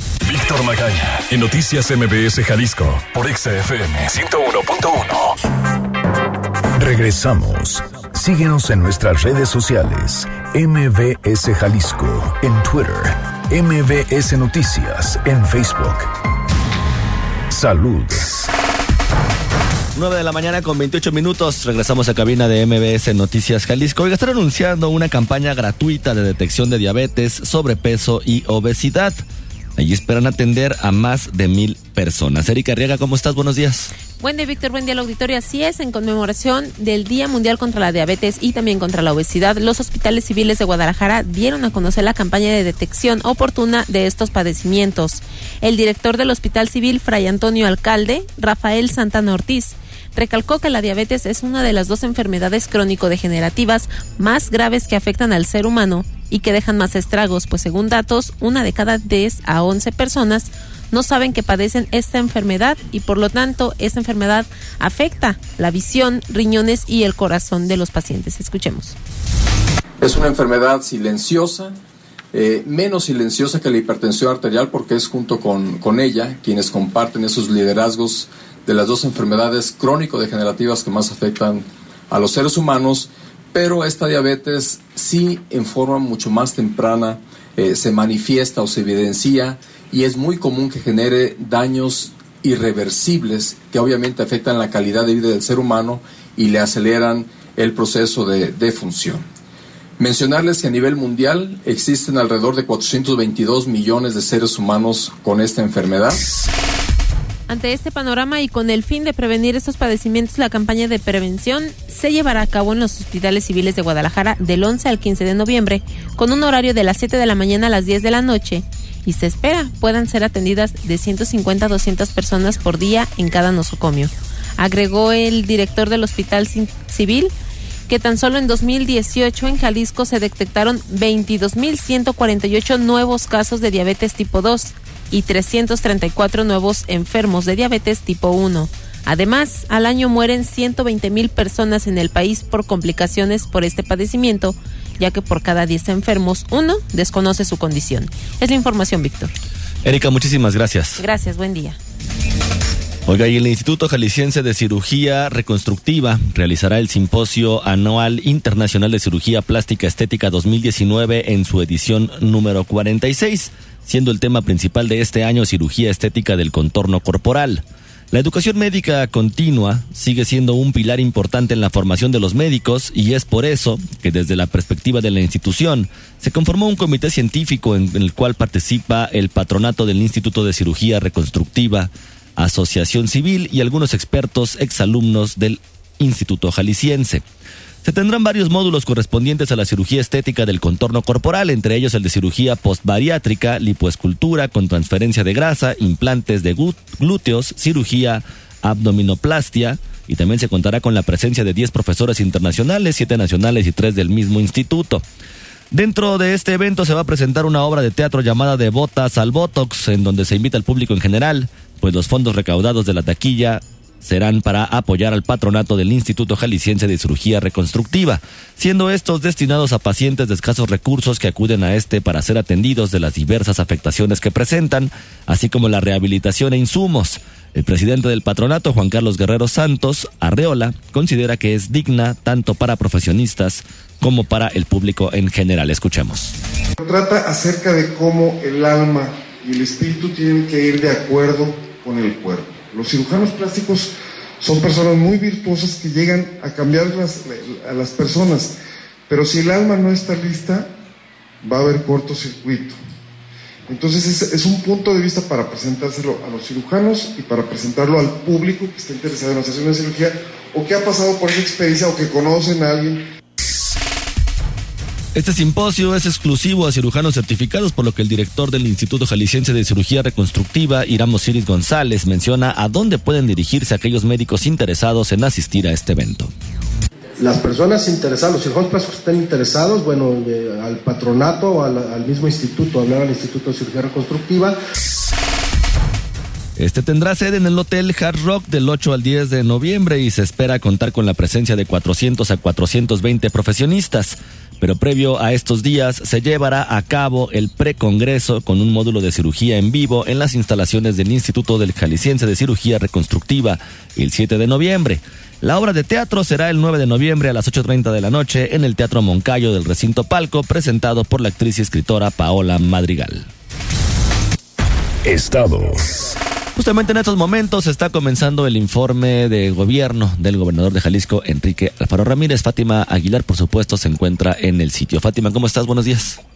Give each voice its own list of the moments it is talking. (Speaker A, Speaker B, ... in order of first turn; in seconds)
Speaker A: 0.2-5.3
Speaker B: 6.8-16.1, 17.5-18.5, 315.0-316.1
Speaker C: 19.9-29.2, 29.8-33.9, 149.8-151.0, 153.1-187.2, 187.8-205.0, 205.7-236.3, 265.1-276.3, 286.6-313.3, 316.6-326.2
Speaker D: 34.2-69.0, 107.5-127.3, 127.9-149.3, 151.0-151.8
Speaker E: 70.0-71.8, 72.3-99.2, 100.0-106.2
Speaker F: 236.8-248.5, 249.1-250.7, 251.4-252.8, 253.7-263.0
Speaker G: 277.2-284.6